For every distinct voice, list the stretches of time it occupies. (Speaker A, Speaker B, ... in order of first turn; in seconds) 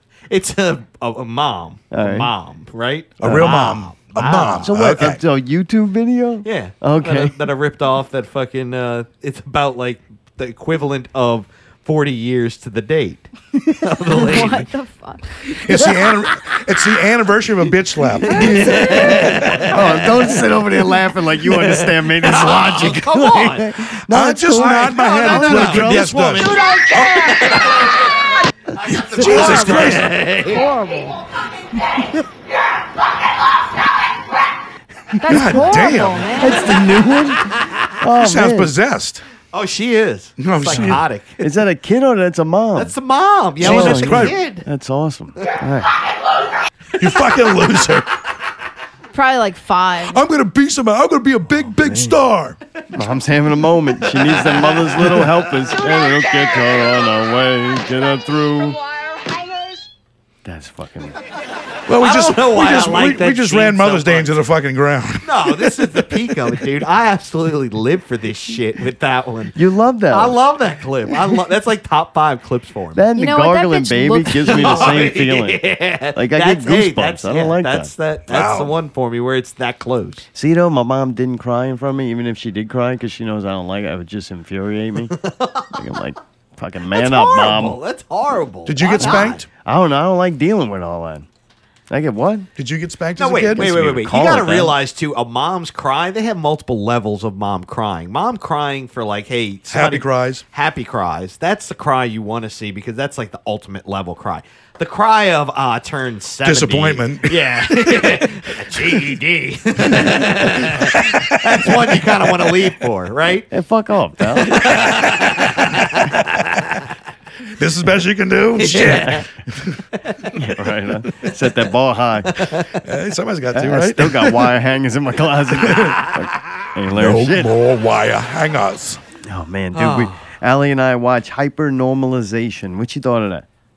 Speaker A: 0.3-4.7, 6.4-14.7, 18.3-23.8, 24.5-28.1, 28.8-30.6, 39.5-41.5, 42.7-44.6, 54.1-55.3, 62.0-64.3, 65.2-69.5, 70.1-73.0, 74.4-80.2, 85.1-85.8, 86.9-89.4, 93.2-113.5, 114.4-116.7, 118.6-119.2, 122.3-122.7, 125.7-126.3, 129.7-130.2
Speaker B: 1.9-2.3, 3.2-3.5, 4.5-7.3, 18.2-26.1, 31.9-32.2, 35.3-35.7, 36.4-38.7, 40.7-42.9, 43.6-45.9, 51.5-52.2, 52.9-58.8, 60.4-61.2, 69.5-70.4, 72.9-75.6, 76.1-77.9, 80.3-85.2, 85.7-87.8, 89.0-91.3, 91.9-92.5, 93.5-94.8, 113.5-114.8, 120.3-122.4, 123.5-127.5, 129.2-133.4
Speaker C: 3.2-5.2, 15.6-19.6, 24.1-27.6, 28.9-30.2, 35.3-36.5, 38.2-39.2, 40.4-41.0, 43.6-44.4, 47.0-48.1, 50.1-52.6, 61.9-66.0, 78.3-78.7, 88.7-89.5, 92.6-93.8, 99.7-100.4, 106.4-108.8, 109.9-111.7, 117.5-119.8, 122.8-124.5, 126.9-129.0
Speaker D: 14.1-15.4, 29.2-31.2, 35.2-36.8, 49.1-50.2, 73.2-74.9
Speaker E: 26.4-28.2, 55.7-57.3, 58.0-59.9